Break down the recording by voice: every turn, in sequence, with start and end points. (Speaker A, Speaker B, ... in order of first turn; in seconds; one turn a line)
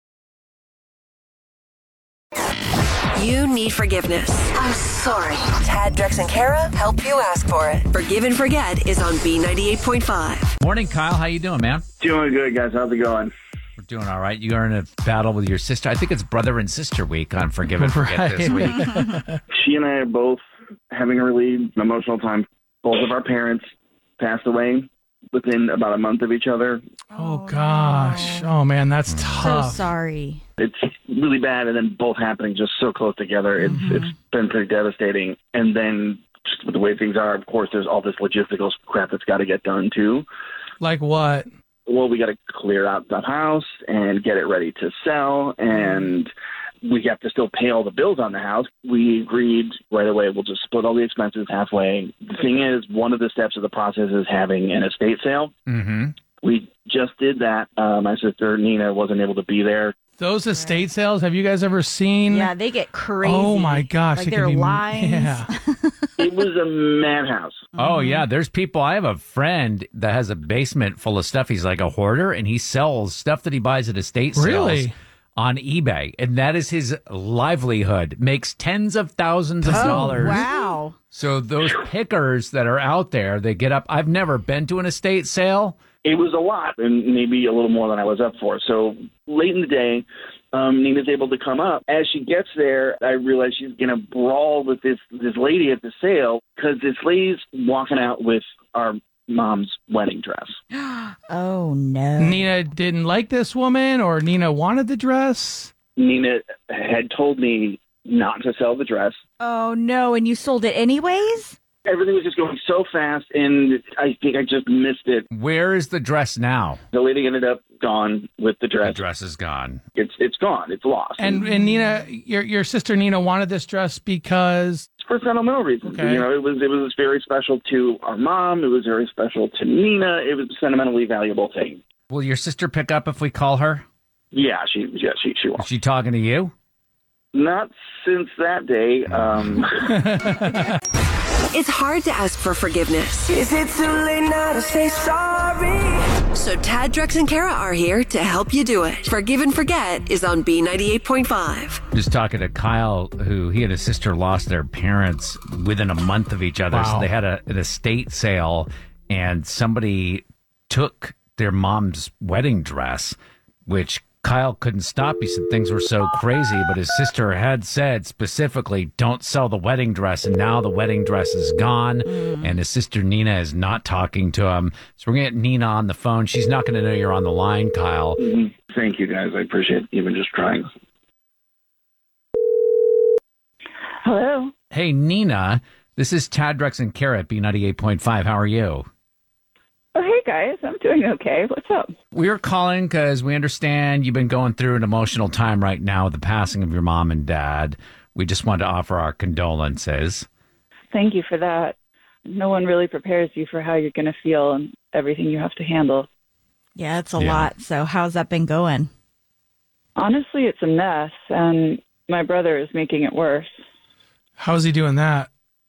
Speaker A: 3.1-10.5
Speaker B: 10.6-11.8
Speaker C: 12.0-13.3
Speaker B: 13.8-18.9
Speaker D: 17.8-19.4
Speaker C: 19.5-23.6
Speaker C: 24.2-26.8
Speaker E: 27.1-28.5
Speaker D: 27.1-29.9
Speaker B: 29.1-29.3
Speaker E: 29.4-30.4
Speaker C: 30.6-40.2
Speaker D: 33.7-34.0
Speaker D: 40.8-41.5
Speaker C: 41.9-46.3
Speaker C: 46.8-55.5
Speaker B: 55.6-56.1
Speaker C: 56.4-59.9
Speaker D: 60.2-62.5
Speaker E: 60.5-60.8
Speaker E: 62.3-66.3
Speaker D: 63.2-65.5
Speaker C: 66.2-67.6
Speaker E: 67.8-68.2
Speaker B: 67.8-80.5
Speaker D: 74.3-74.9
Speaker D: 79.6-80.3
Speaker E: 79.7-80.9
Speaker B: 81.1-85.8
Speaker C: 86.0-100.6
Speaker E: 100.8-102.5
Speaker D: 102.2-105.7
Speaker C: 106.0-109.2
Speaker E: 109.4-111.5
Speaker C: 111.8-115.3
Speaker B: 115.3-116.8
Speaker C: 116.9-119.0
Speaker B: 118.8-119.8
Speaker C: 120.0-121.4
Speaker D: 121.2-124.8
Speaker C: 125.0-131.8
Speaker D: 125.8-126.3
Speaker B: 132.1-133.8
Speaker C: 134.3-135.7
Speaker B: 135.6-136.5
Speaker C: 137.3-139.8
Speaker B: 139.1-139.7
Speaker D: 139.8-140.7
Speaker A: 141.5-143.3
Speaker F: 143.3-146.2
Speaker A: 146.3-151.8
Speaker B: 151.9-178.2
Speaker D: 156.7-157.1
Speaker E: 172.2-172.6
Speaker C: 178.2-180.7
Speaker G: 184.0-184.5
Speaker B: 184.7-188.9
Speaker G: 189.9-191.9
Speaker B: 192.1-200.3
Speaker G: 200.9-201.7
Speaker G: 202.3-206.1
Speaker E: 206.8-208.9
Speaker B: 207.2-207.5
Speaker G: 209.9-213.4
Speaker D: 214.4-215.3